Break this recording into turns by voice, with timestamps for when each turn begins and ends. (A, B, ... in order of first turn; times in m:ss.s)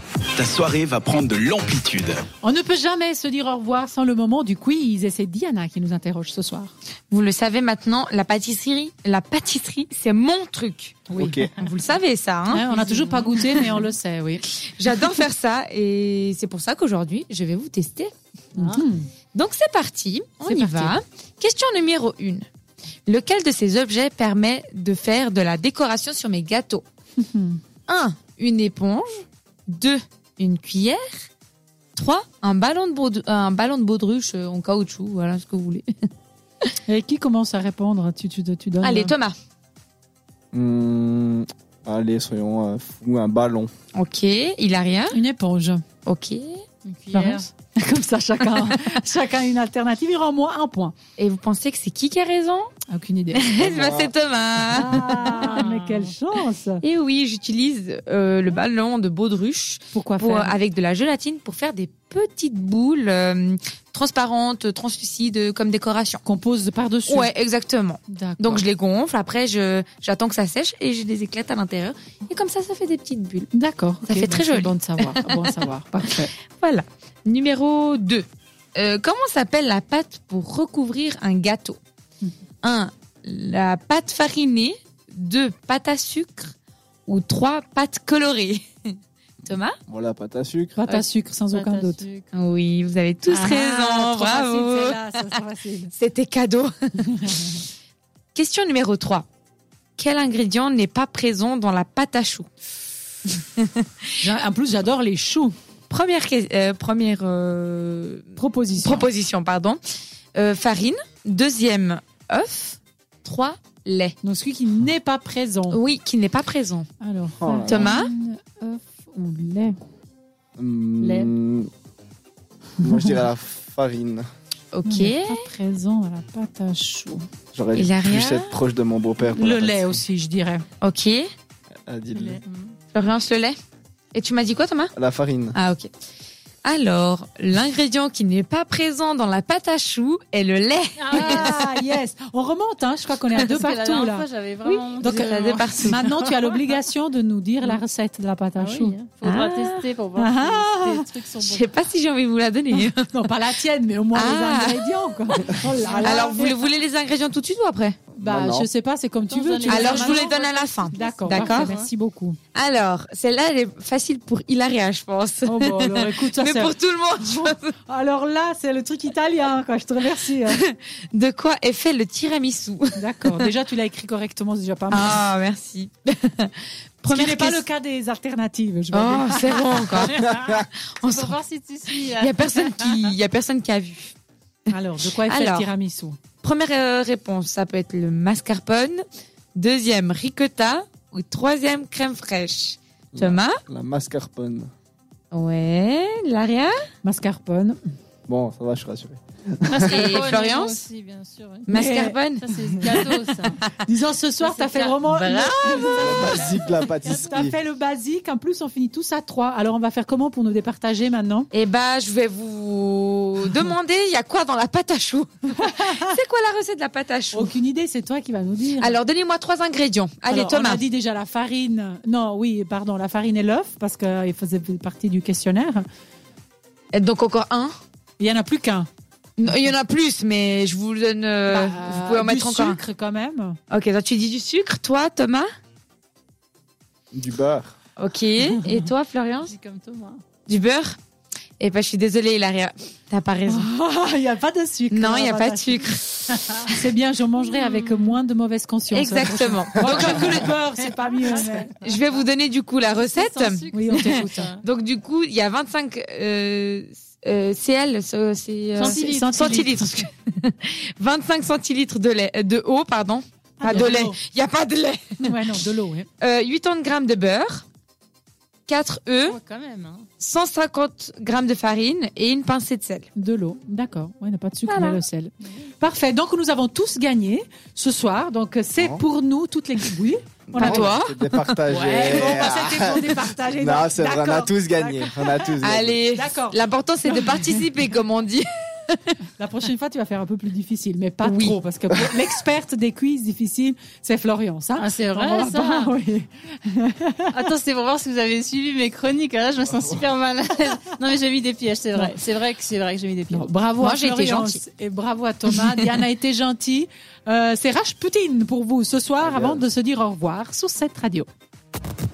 0:00.4-0:02.2 A
0:02.4-0:06.7 B
0:07.1-0:12.7 C
0:11.1-0:11.5 B
0:11.2-0:11.5 D
0:12.5-0:14.4 B
0:12.8-0:13.2 E
0:13.3-0:13.8 C
0:14.6-0:18.6 C
0:18.5-0:19.1 B
0:19.3-0:22.4 C
0:20.4-0:21.0 B
0:23.0-0:26.8 C
0:27.2-0:27.6 B
0:27.9-0:31.0 C
0:32.0-0:35.8 C
0:36.8-0:39.1 B
0:38.8-0:39.3 C
0:40.5-0:43.7 D
0:43.9-0:45.2 C
0:45.1-0:45.8 B
0:46.0-0:46.4 C
0:46.8-0:47.2 A
0:47.1-0:50.9 B
0:47.2-0:47.4 E
0:48.5-0:48.9 C
0:51.2-0:52.7 C
0:52.9-0:53.4 B
0:53.3-0:55.7 C
0:53.6-0:54.1 D
0:54.7-0:56.8 B
0:56.8-1:06.2 C
0:59.9-1:00.5 B
1:06.2-1:07.3 B
1:07.1-1:13.5 C
1:08.1-1:08.6 B
1:13.5-1:16.3 B
1:14.1-1:15.5 C
1:16.5-1:18.2 C
1:18.8-1:21.8 C
1:22.6-1:26.5 C
1:27.1-1:28.7 C
1:29.4-1:29.8 C
1:29.9-1:30.8 D
1:30.8-1:32.0 B
1:31.5-1:32.2 E
1:32.3-1:35.2 C
1:33.3-1:35.9 B
1:35.9-1:37.6 C
1:37.0-1:37.6 B
1:38.3-1:39.2 C
1:40.0-1:42.5 C
1:43.6-1:44.1 C
1:44.2-1:45.5 B
1:45.9-1:49.8 C
1:48.4-1:49.1 B
1:50.3-1:54.2 C
1:54.2-1:55.8 B
1:55.7-1:56.9 C
1:57.0-1:59.8 B
1:57.4-1:57.9 D
1:57.6-1:58.1 C
2:00.6-2:01.7 D
2:02.8-2:03.2 B
2:02.8-2:04.3 D
2:04.7-2:05.4 C
2:04.8-2:07.2 B
2:07.5-2:10.0 D
2:07.7-2:08.5 C
2:09.2-2:10.6 B
2:10.8-2:11.2 C
2:11.9-2:12.4 D
2:12.2-2:12.6 A
2:12.2-2:12.7 E
2:12.9-2:13.6 C
2:14.1-2:14.9 C
2:15.0-2:15.6 D
2:15.5-2:15.9 C
2:16.6-2:21.6 C
2:21.1-2:24.2 B
2:23.3-2:23.6 C
2:23.6-2:25.7 E
2:24.6-2:26.6 C
2:25.7-2:29.0 B
2:28.6-2:31.7 E
2:29.2-2:29.9 C
2:30.2-2:31.1 B
2:31.3-2:33.3 C
2:32.7-2:36.6 B
2:34.1-2:38.0 C
2:38.2-2:38.7 D
2:38.2-2:42.4 B
2:39.3-2:41.9 E
2:39.6-2:41.7 C
2:41.2-2:41.5 A
2:42.5-2:47.7 C
2:45.4-2:50.6 B
2:50.4-2:53.5 C
2:53.0-2:55.2 B
2:54.9-2:57.6 C
2:57.1-3:00.1 B
2:58.9-3:04.1 C
3:01.1-3:03.0 E
3:04.7-3:05.7 C
3:04.7-3:06.2 B
3:06.4-3:09.0 C
3:09.6-3:13.6 C
3:13.1-3:14.7 D
3:15.3-3:16.8 C
3:17.0-3:17.8 B
3:18.3-3:20.2 D
3:19.7-3:20.8 C
3:19.7-3:20.5 A
3:20.4-3:21.6 E
3:21.7-3:23.5 C
3:21.7-3:22.2 B
3:22.4-3:23.6 E
3:22.7-3:23.0 A
3:23.8-3:26.4 B
3:24.4-3:25.0 E
3:25.1-3:25.8 C
3:25.7-3:26.9 E
3:25.9-3:27.4 A
3:26.0-3:27.6 D
3:27.0-3:31.5 B
3:31.5-3:37.5 C
3:37.3-3:39.0 B
3:38.8-3:40.8 C
3:40.3-3:45.8 B
3:46.9-3:47.7 C
3:48.2-3:48.9 B
3:49.4-3:52.8 C
3:51.5-3:53.6 B
3:53.7-3:55.5 C
3:57.1-3:57.7 D
3:58.0-3:59.5 C
3:59.5-4:00.2 E
4:00.4-4:01.0 C
4:01.6-4:03.7 C
4:03.5-4:05.9 B
4:04.9-4:06.8 C
4:06.6-4:11.7 B
4:07.4-4:08.1 C
4:08.9-4:10.6 C
4:11.4-4:25.6 C
4:13.0-4:14.6 E
4:13.7-4:14.5 B
4:18.8-4:20.0 B
4:23.6-4:24.2 B
4:25.2-4:26.1 B
4:26.2-4:27.6 C
4:28.7-4:29.4 C
4:29.2-4:30.1 E
4:30.2-4:33.1 C
4:33.2-4:41.0 B
4:34.7-4:35.0 C
4:40.5-4:46.0 D
4:40.5-4:43.0 C
4:41.8-4:45.5 B
4:45.6-4:49.2 C
4:46.1-4:47.5 B
4:49.4-4:57.4 B
4:51.2-4:52.3 C
4:54.8-4:55.9 E
4:57.3-5:03.3 E
4:58.9-5:02.8 A
5:03.3-5:11.3 B
5:03.8-5:04.6 C
5:05.5-5:05.8 C
5:09.2-5:09.6 D